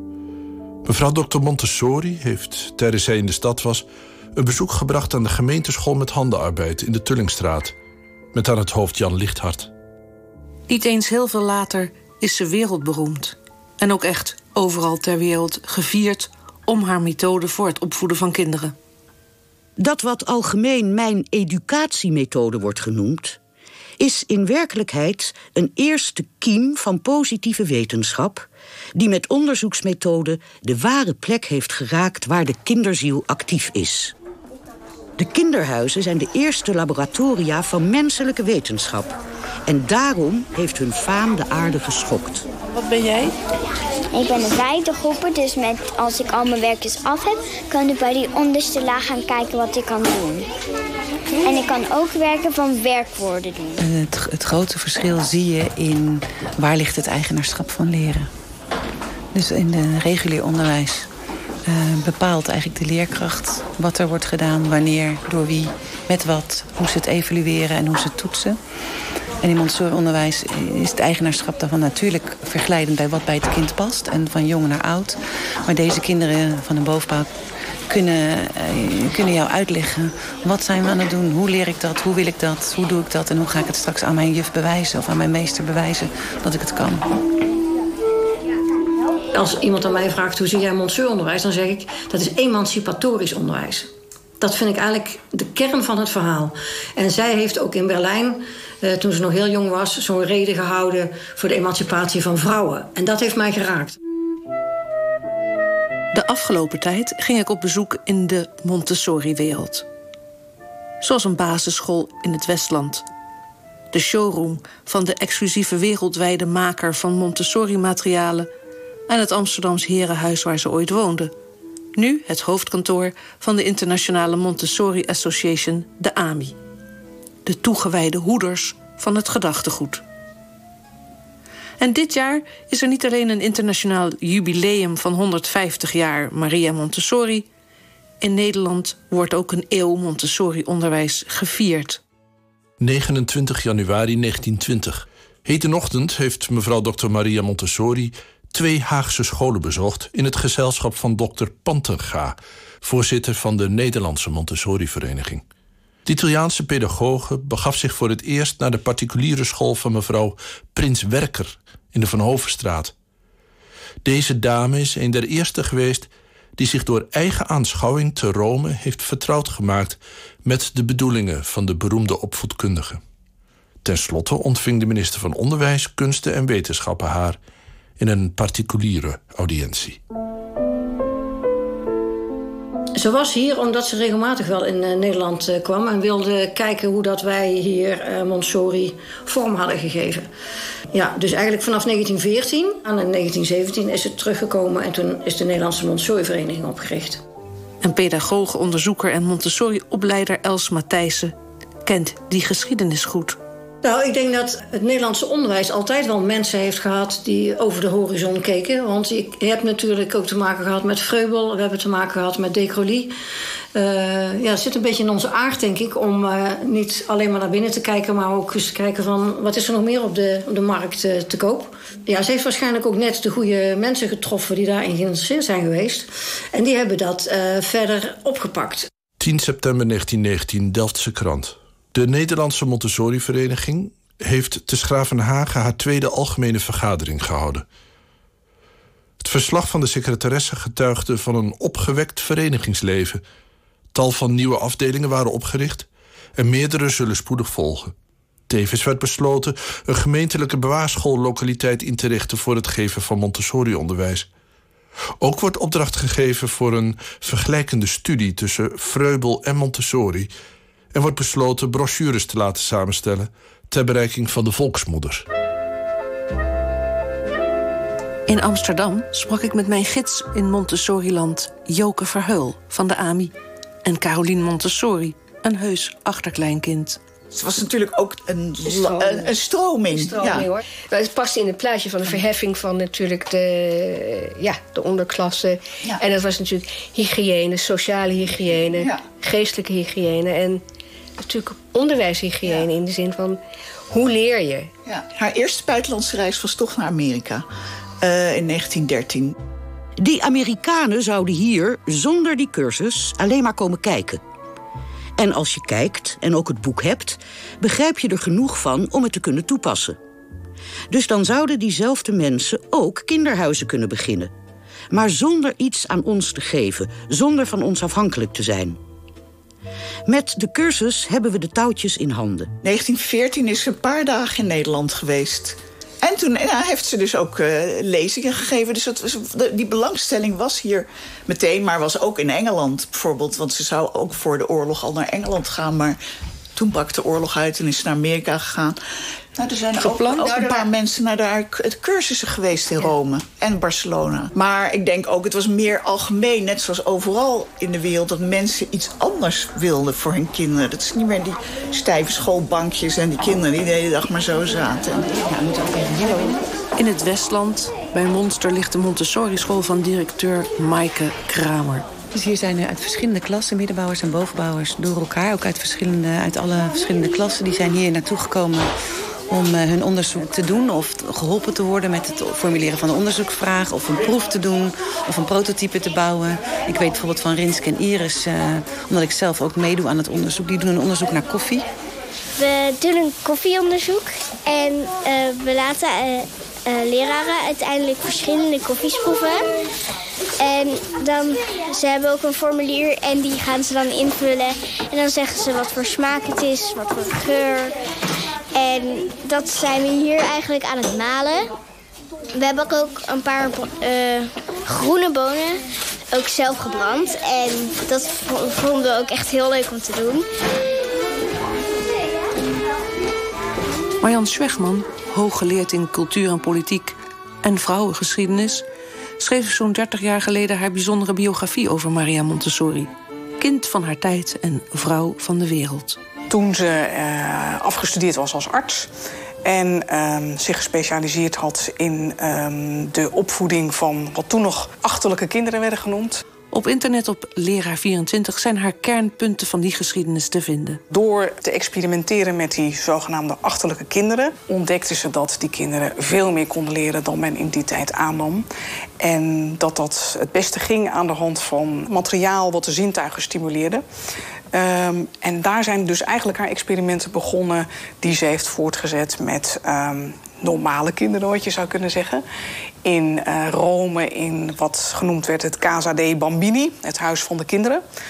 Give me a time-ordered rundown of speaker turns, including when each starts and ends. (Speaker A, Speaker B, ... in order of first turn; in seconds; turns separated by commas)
Speaker A: 0.8-7.7, Speaker A: 8.3-9.7, Speaker B: 10.7-18.7, Speaker C: 19.8-23.4, Speaker C: 24.0-34.1, Speaker C: 35.2-42.5, Speaker B: 42.8-43.3, Speaker D: 44.1-50.5, Speaker D: 51.4-53.8, Speaker E: 53.8-58.3, Speaker E: 59.3-61.1, Speaker E: 61.6-68.6, Speaker E: 69.4-75.2, Speaker E: 75.7-77.3, Speaker E: 77.9-87.0, Speaker F: 89.3-104.0, Speaker B: 106.1-109.8, Speaker B: 111.0-113.0, Speaker B: 113.9-118.5, Speaker B: 119.1-121.3, Speaker B: 121.9-126.6, Speaker B: 127.4-130.0, Speaker B: 131.8-137.5, Speaker B: 138.2-142.0, Speaker A: 142.8-155.4, Speaker A: 156.1-162.9, Speaker A: 164.0-173.0, Speaker A: 173.8-177.4, Speaker A: 178.0-180.0, Speaker F: 182.9-190.3, Speaker F: 190.9-197.2, Speaker B: 197.8-203.4, Speaker F: 203.8-213.1, Speaker F: 213.7-228.9, Speaker A: 229.2-237.6, Speaker A: 239.2-243.2, Speaker A: 243.9-247.9, Speaker A: 248.5-254.3, Speaker A: 255.2-260.3, Speaker A: 260.9-265.2, Speaker B: 268.3-273.3, Speaker B: 273.8-277.0, Speaker G: 277.3-280.5, Speaker H: 278.6-279.3, Speaker H: 279.9-290.6, Speaker G: 288.5-289.0, Speaker H: 291.2-294.7, Speaker G: 292.4-292.7, Speaker G: 294.8-297.4, Speaker G: 298.0-299.3, Speaker C: 300.0-304.2, Speaker C: 305.2-310.0, Speaker C: 310.9-314.3, Speaker C: 314.9-318.8, Speaker C: 320.1-322.5, Speaker G: 322.6-336.0, Speaker G: 336.6-338.8, Speaker G: 339.4-355.1, Speaker B: 339.8-340.3, Speaker E: 355.1-356.4, Speaker B: 356.8-361.9, Speaker E: 362.1-368.7, Speaker E: 369.3-381.6, Speaker D: 382.4-389.5, Speaker D: 390.4-397.7, Speaker D: 398.5-401.5, Speaker D: 402.3-405.6, Speaker D: 406.1-410.3, Speaker B: 414.0-418.6, Speaker B: 419.2-426.0, Speaker I: 426.3-428.9, Speaker I: 429.4-436.2, Speaker B: 436.5-440.8, Speaker I: 440.9-448.4, Speaker I: 449.0-453.8, Speaker I: 454.5-462.2, Speaker I: 462.8-467.8